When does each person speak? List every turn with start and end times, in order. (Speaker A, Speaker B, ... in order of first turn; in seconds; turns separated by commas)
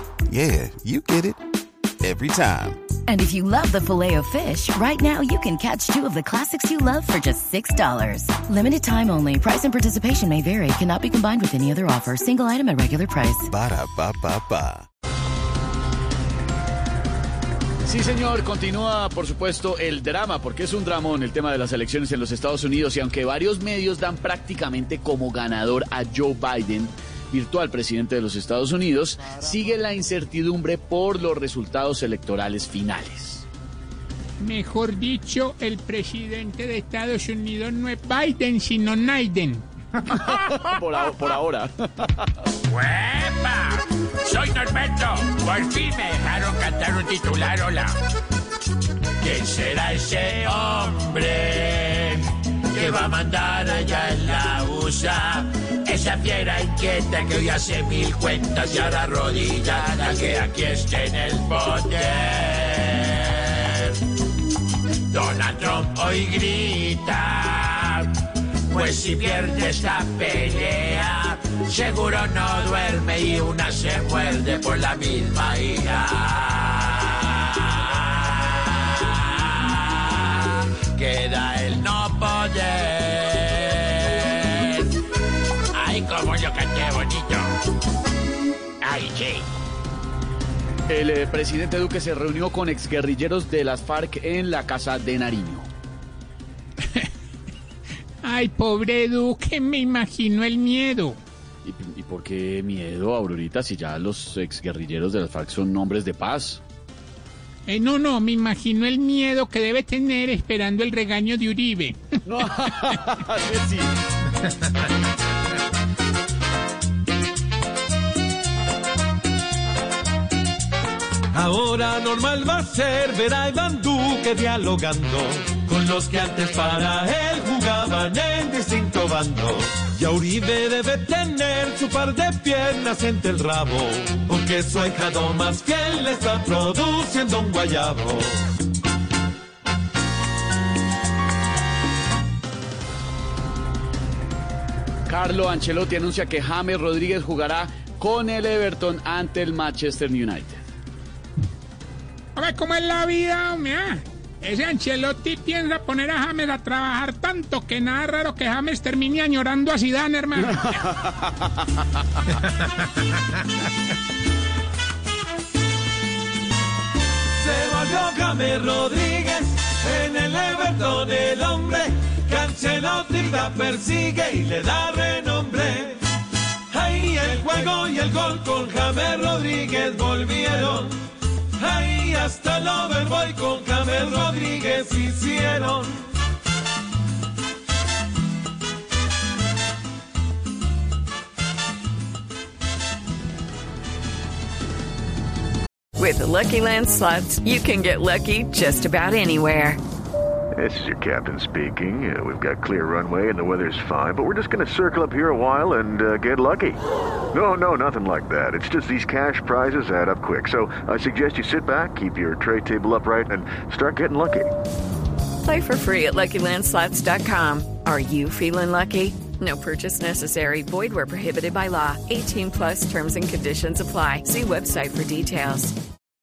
Speaker A: 0.3-1.4, Speaker A: 2.0-2.8, Speaker B: 3.1-13.5, Speaker A: 13.4-14.9, Speaker C: 17.8-33.5, Speaker D: 34.4-39.7, Speaker C: 40.1-42.3, Speaker E: 42.7-47.9, Speaker E: 49.2-64.0, Speaker E: 65.1-68.1, Speaker E: 68.7-84.9, Speaker E: 85.8-87.5, Speaker E: 88.8-89.4, Speaker C: 90.9-95.7, Speaker D: 98.2-101.2, Speaker C: 101.6-106.6, Speaker D: 107.7-112.1, Speaker C: 112.2-113.9, Speaker F: 121.3-138.3, Speaker C: 145.1-150.6, Speaker D: 152.3-160.6, Speaker C: 160.4-161.3, Speaker F: 167.4-176.0, Speaker F: 176.7-180.9, Speaker F: 181.6-185.9, Speaker G: 196.0-199.8, Speaker H: 200.5-206.8, Speaker H: 207.3-214.5, Speaker G: 215.4-225.7